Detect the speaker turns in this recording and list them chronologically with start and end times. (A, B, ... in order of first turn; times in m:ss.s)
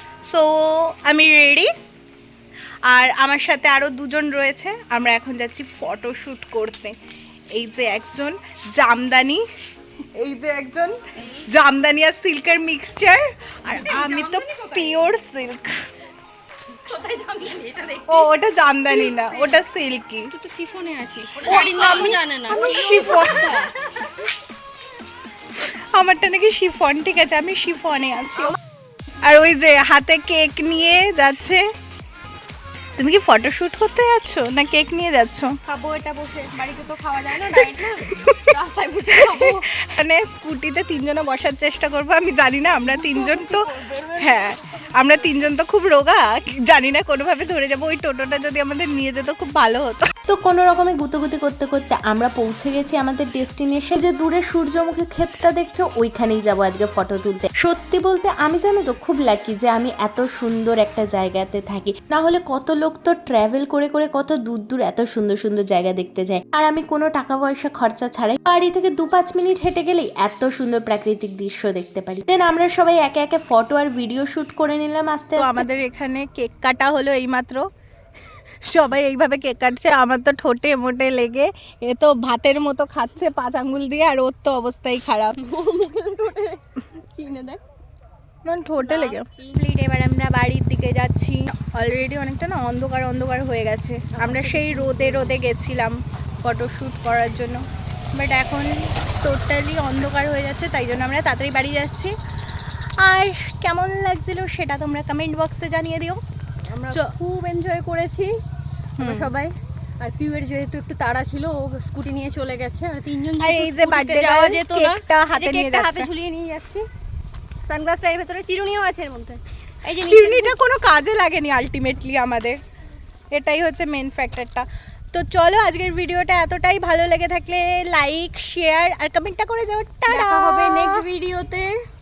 0:00.3-0:01.7 A
0:02.9-0:06.9 A
0:07.6-0:09.4 A
0:10.2-0:15.8 A
0:13.7-0:14.9 B
0:16.9-0:18.2 B
0:18.1-0:20.3 A
0:19.0-0:19.6 B
0:20.3-0:24.0 B
0:21.4-0:23.7 A
0:25.6-0:28.6 A
0:29.2-0:31.6 A
0:33.0-0:35.6 A
0:35.7-0:39.6 B
0:37.5-0:38.5 A
0:39.1-0:43.7 A
0:42.9-0:44.4 B
0:44.2-0:50.1 A
0:50.3-1:15.6 C
1:15.4-1:17.6 A
1:18.6-1:25.4 A
1:25.4-1:27.6 B
1:28.4-1:37.6 A
1:28.8-1:29.6 B
1:34.1-1:35.4 B
1:38.2-1:42.1 A
1:42.6-1:46.2 A
1:46.7-1:48.3 B
1:49.0-1:49.3 A
1:49.0-1:56.9 B
1:53.4-1:56.1 A
1:57.7-2:00.6 B
1:59.9-2:02.6 A
2:03.3-2:11.0 A
2:10.1-2:11.8 B